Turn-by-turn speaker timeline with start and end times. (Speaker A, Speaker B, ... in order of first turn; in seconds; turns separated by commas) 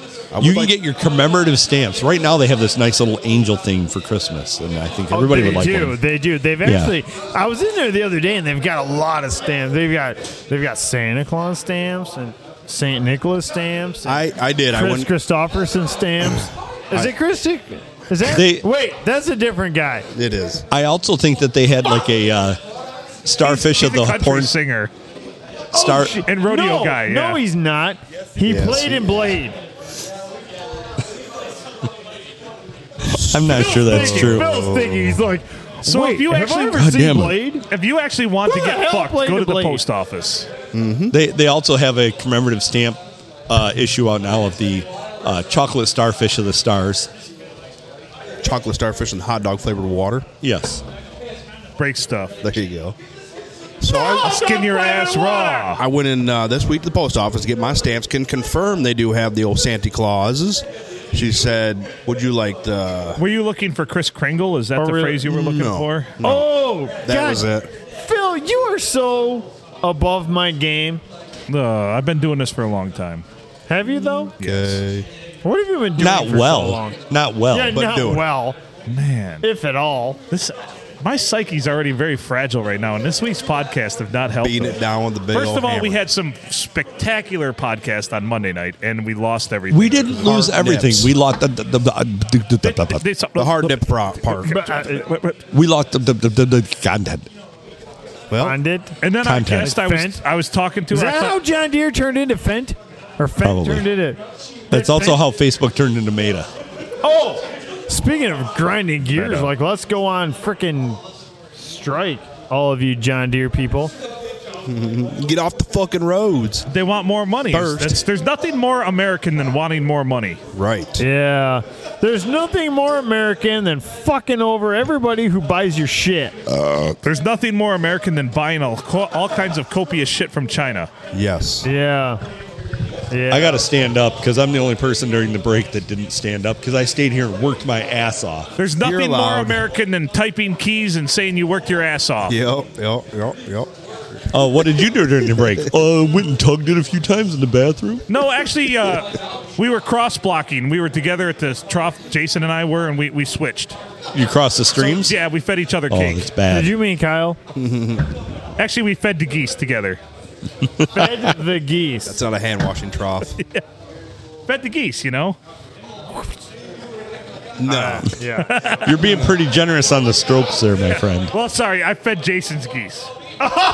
Speaker A: 0.3-0.8, Speaker B: 0.4-6.0, Speaker C: 5.1-20.1, Speaker B: 6.6-6.9, Speaker A: 14.1-15.1, Speaker B: 18.2-18.7, Speaker A: 20.1-20.6, Speaker B: 20.7-22.6, Speaker B: 23.2-24.5, Speaker D: 23.4-24.9, Speaker B: 25.7-26.2, Speaker C: 25.8-29.6, Speaker D: 25.8-27.4, Speaker A: 28.4-29.3, Speaker A: 33.0-35.2, Speaker B: 33.2-34.5, Speaker C: 33.5-37.7, Speaker D: 35.9-36.9, Speaker B: 36.7-37.4, Speaker D: 37.7-40.5, Speaker C: 38.5-39.8, Speaker A: 40.7-41.2, Speaker B: 41.1-47.1, Speaker A: 48.4-50.3, Speaker B: 50.4-50.8, Speaker D: 51.8-52.4, Speaker A: 52.4-53.0, Speaker A: 53.8-54.5, Speaker C: 53.9-55.7, Speaker D: 54.2-55.8, Speaker A: 55.8-63.2, Speaker D: 63.2-66.2, Speaker C: 64.8-65.2, Speaker A: 65.2-67.7, Speaker C: 66.2-71.0, Speaker D: 71.5-73.2, Speaker C: 73.7-74.3, Speaker D: 74.4-74.8, Speaker A: 74.4-75.1, Speaker C: 75.4-77.0, Speaker B: 76.0-77.8, Speaker C: 77.5-78.6, Speaker A: 77.7-78.3, Speaker D: 78.9-79.5, Speaker C: 79.4-80.2, Speaker D: 80.3-84.8, Speaker A: 84.4-86.0, Speaker D: 85.3-90.3, Speaker B: 89.7-93.0, Speaker A: 90.1-91.1, Speaker D: 92.6-95.4, Speaker A: 93.4-94.6, Speaker C: 94.5-95.1, Speaker B: 95.5-97.3, Speaker A: 98.3-98.6, Speaker C: 98.4-99.0, Speaker D: 99.0-101.4, Speaker B: 99.2-99.8, Speaker C: 99.6-100.2, Speaker C: 100.9-105.2, Speaker B: 103.4-103.9, Speaker B: 104.7-106.5, Speaker C: 107.0-111.0, Speaker B: 109.1-109.5, Speaker C: 111.6-113.9, Speaker A: 114.7-116.7, Speaker D: 116.7-120.4, Speaker A: 117.5-118.0, Speaker A: 120.5-121.0, Speaker C: 121.0-126.4, Speaker A: 126.5-127.0, Speaker D: 127.0-130.9, Speaker A: 131.1-131.7, Speaker C: 131.6-132.2, Speaker C: 133.1-133.7, Speaker B: 133.3-138.5, Speaker D: 138.6-142.4, Speaker A: 138.8-139.6, Speaker A: 142.3-144.3, Speaker B: 144.3-148.0, Speaker D: 148.1-153.8, Speaker B: 154.1-155.2, Speaker D: 154.8-156.3, Speaker B: 155.9-156.8, Speaker C: 156.5-157.4, Speaker A: 157.6-158.3, Speaker D: 158.6-160.0, Speaker B: 160.8-161.1, Speaker C: 160.9-162.2, Speaker A: 162.1-163.3, Speaker D: 163.3-163.6, Speaker D: 164.5-165.4, Speaker A: 167.6-168.1, Speaker C: 167.6-168.7, Speaker D: 168.4-169.1, Speaker B: 168.8-171.3, Speaker D: 170.9-173.1